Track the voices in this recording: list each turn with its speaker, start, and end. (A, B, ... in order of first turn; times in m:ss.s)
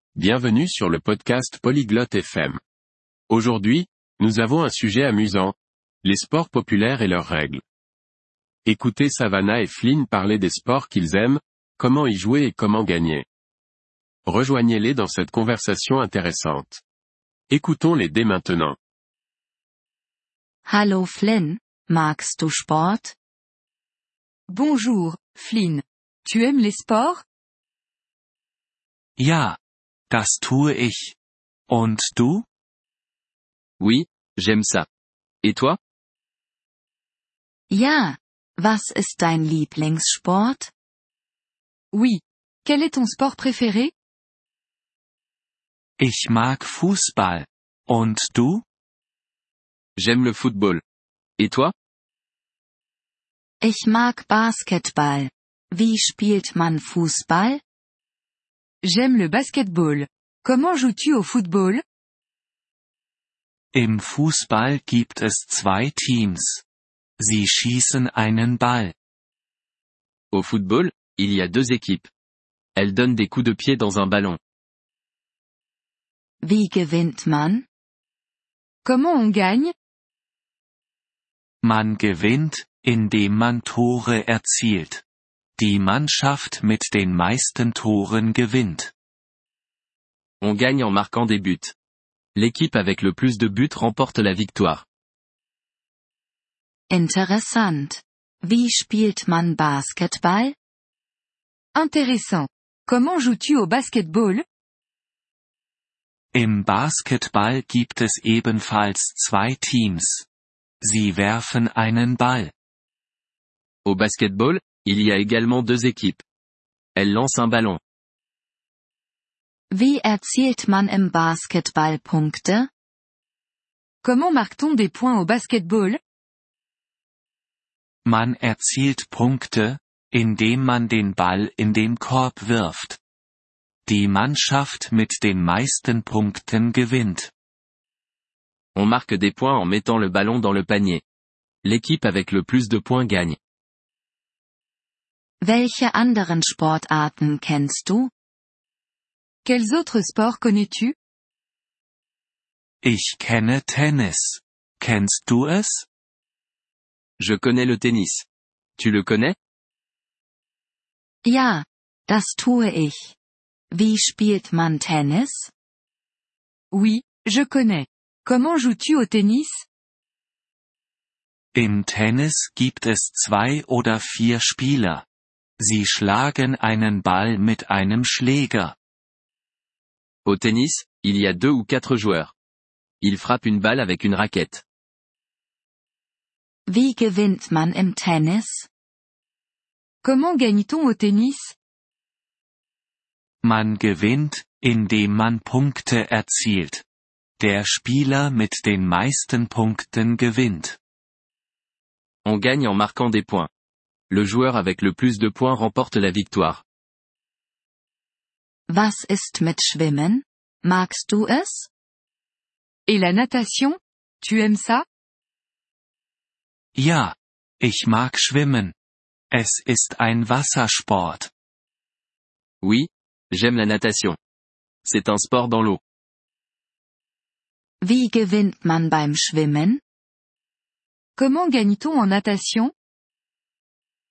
0:00.2-0:02.6 A
0:03.3-0:07.6 A
0:08.7-0:13.3 A
0:14.3-0:16.8 A
0:17.5-0:18.8 A
0:20.7-0:23.2 B
0:24.5-0:27.2 C
0:29.2-0:29.6 D
0:30.1-0:31.2 D
0:31.7-0:32.5 D
0:33.8-0:34.9 E
0:35.4-0:35.8 E
0:37.7-0:40.7 B
0:41.9-0:43.9 C
0:46.0-0:48.6 D
0:50.0-0:50.8 E
0:51.4-0:51.7 E
0:53.6-0:57.6 B
0:58.8-1:01.8 C
1:03.7-1:06.6 D
1:07.2-1:09.0 D
1:10.3-1:12.1 E
1:12.8-1:14.4 E
1:16.4-1:17.7 B
1:18.8-1:19.7 C
1:21.6-1:25.0 D
1:25.6-1:28.9 D
1:30.4-1:31.7 E
1:32.4-1:34.8 E
1:36.9-1:40.6 B
1:41.8-1:44.4 C
1:46.3-1:50.3 D
1:50.8-1:52.5 D
1:53.8-1:56.2 E
1:57.0-1:57.8 E
1:59.7-2:02.7 B
2:04.0-2:06.0 C
2:08.0-2:13.0 D
2:13.9-2:17.3 D
2:18.8-2:21.0 E
2:21.6-2:23.4 E
2:25.4-2:28.1 B
2:29.4-2:30.9 C
2:32.8-2:35.9 D
2:37.2-2:38.3 E
2:38.8-2:39.4 E
2:41.2-2:43.2 B
2:43.7-2:45.5 B
2:46.7-2:49.6 C
2:51.5-2:55.0 D
2:55.6-2:58.8 D
3:00.2-3:02.3 E
3:03.0-3:04.6 E
3:06.7-3:08.7 B
3:10.0-3:11.5 C
3:13.4-3:16.8 D
3:17.4-3:20.8 D
3:22.2-3:23.5 E
3:24.1-3:26.6 E
3:28.7-3:31.7 B
3:32.9-3:34.8 C
3:36.8-3:38.8 D
3:39.3-3:41.3 D
3:42.6-3:44.2 E
3:44.8-3:45.8 E
3:47.8-3:49.8 B
3:51.2-3:52.7 C